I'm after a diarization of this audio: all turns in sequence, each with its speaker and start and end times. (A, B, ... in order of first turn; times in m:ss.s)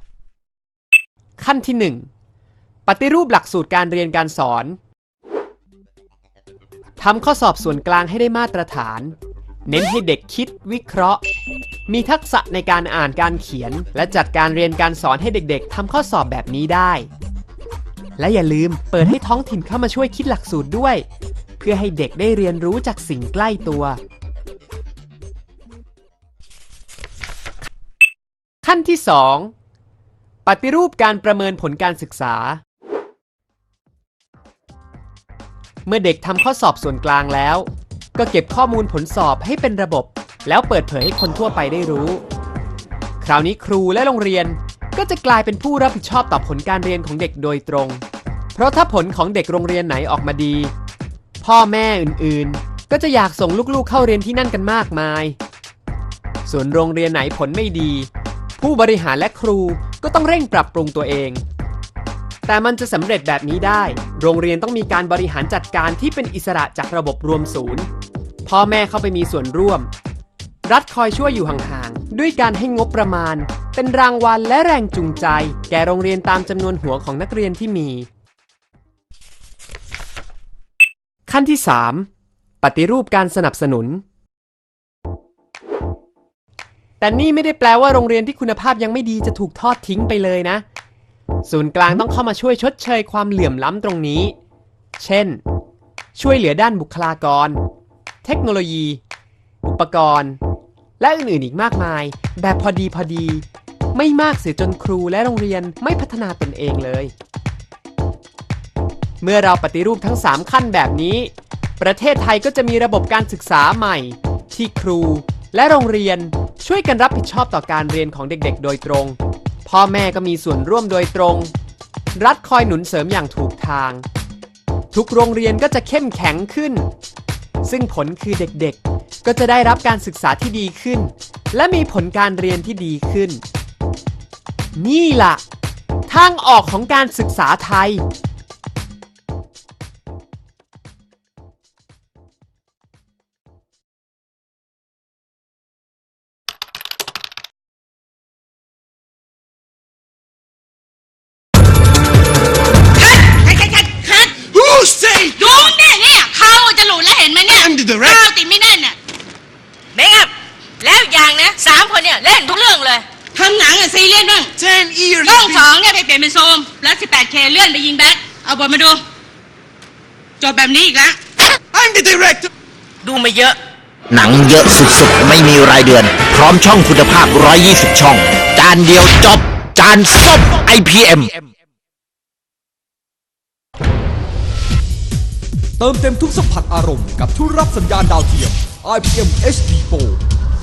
0:01.4-0:02.1 A
0:02.8-0:04.8 A
0:07.0-0:09.1 A
0:09.6-0:11.2 A
0:11.9-0:17.1 A
0:18.2-0:21.0 A
0:21.6-0:24.0 A
0:28.6-0:29.5 A
0:30.4-0:32.6 A
0:35.8-0:42.2 A
0:43.2-0:48.0 A
0:48.5-0:50.7 A
0:51.4-0:55.4 A
0:56.4-1:01.4 A
1:02.4-1:07.9 A
1:08.4-1:09.9 A
1:10.6-1:18.1 A
1:21.3-1:22.1 A
1:22.6-1:24.0 A
1:27.0-1:30.6 A
1:31.4-1:34.3 A
1:35.0-1:35.4 A
1:36.2-1:37.6 A
1:38.2-1:39.0 A
1:39.6-1:40.4 A
1:41.0-1:47.1 A
1:49.2-2:01.5 A
2:02.2-2:04.0 A
2:04.9-2:06.9 A
2:07.6-2:13.4 A
2:14.8-2:15.4 A
2:16.1-2:18.0 A
2:33.0-2:34.4 B
2:34.4-2:35.7 C
2:35.4-2:39.0 B
2:37.5-2:38.3 C
2:39.9-2:43.0 D
2:43.3-2:44.5 B
2:44.6-2:45.7 C
2:45.2-2:49.0 B
2:50.4-2:51.2 B
2:51.7-2:52.5 C
2:53.0-2:53.6 D
2:54.1-3:01.5 E
3:05.8-3:10.2 F